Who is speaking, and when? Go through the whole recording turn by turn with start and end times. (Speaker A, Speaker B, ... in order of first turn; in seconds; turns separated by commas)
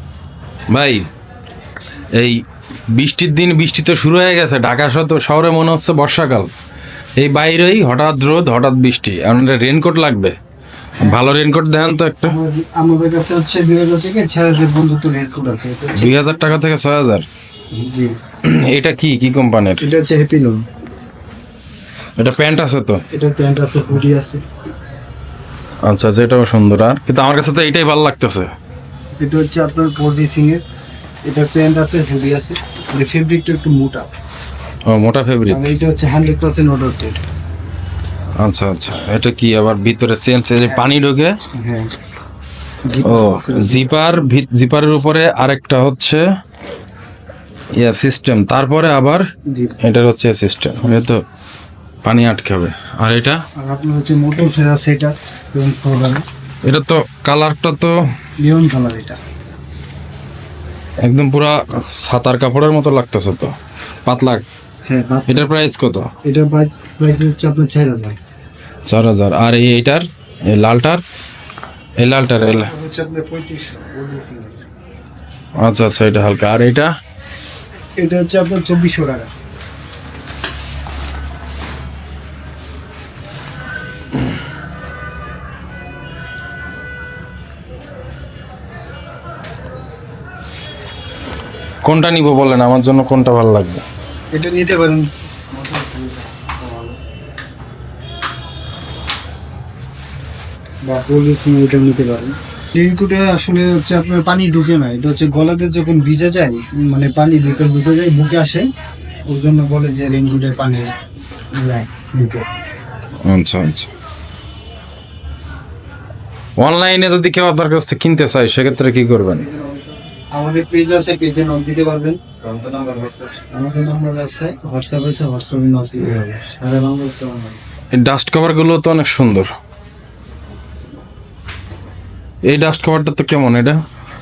Speaker A: 0.7-1.1, Speaker A: 2.1-2.4, Speaker A: 2.9-6.5, Speaker A: 7.2-10.4, Speaker A: 11.0-12.4, Speaker B: 12.2-16.5, Speaker A: 15.9-17.3, Speaker B: 17.7-18.2, Speaker A: 18.4-19.8, Speaker B: 19.8-20.6, Speaker A: 22.2-23.0, Speaker B: 23.1-24.4, Speaker A: 25.9-28.5, Speaker B: 29.2-30.6, Speaker B: 31.2-34.1, Speaker A: 34.9-35.7, Speaker B: 35.5-37.2, Speaker A: 38.4-41.4, Speaker B: 41.6-41.9, Speaker B: 42.9-43.9, Speaker A: 43.0-46.2, Speaker A: 47.8-49.2, Speaker B: 49.5-49.8, Speaker A: 49.8-51.2, Speaker A: 52.0-53.4, Speaker B: 53.6-56.2, Speaker A: 56.7-58.0, Speaker B: 58.4-59.2, Speaker A: 61.0-63.6, Speaker A: 64.1-64.4, Speaker B: 64.9-65.5, Speaker A: 65.3-66.1, Speaker B: 66.2-68.2, Speaker A: 68.9-71.0, Speaker A: 72.0-72.7, Speaker B: 72.6-74.6, Speaker A: 75.6-76.9, Speaker B: 78.0-79.3, Speaker A: 91.8-93.8, Speaker B: 94.3-97.0, Speaker B: 100.9-108.7, Speaker B: 109.3-110.9, Speaker B: 111.6-112.5, Speaker A: 113.3-113.9, Speaker A: 116.6-119.5, Speaker B: 119.5-127.6, Speaker A: 128.0-129.5, Speaker A: 132.5-133.8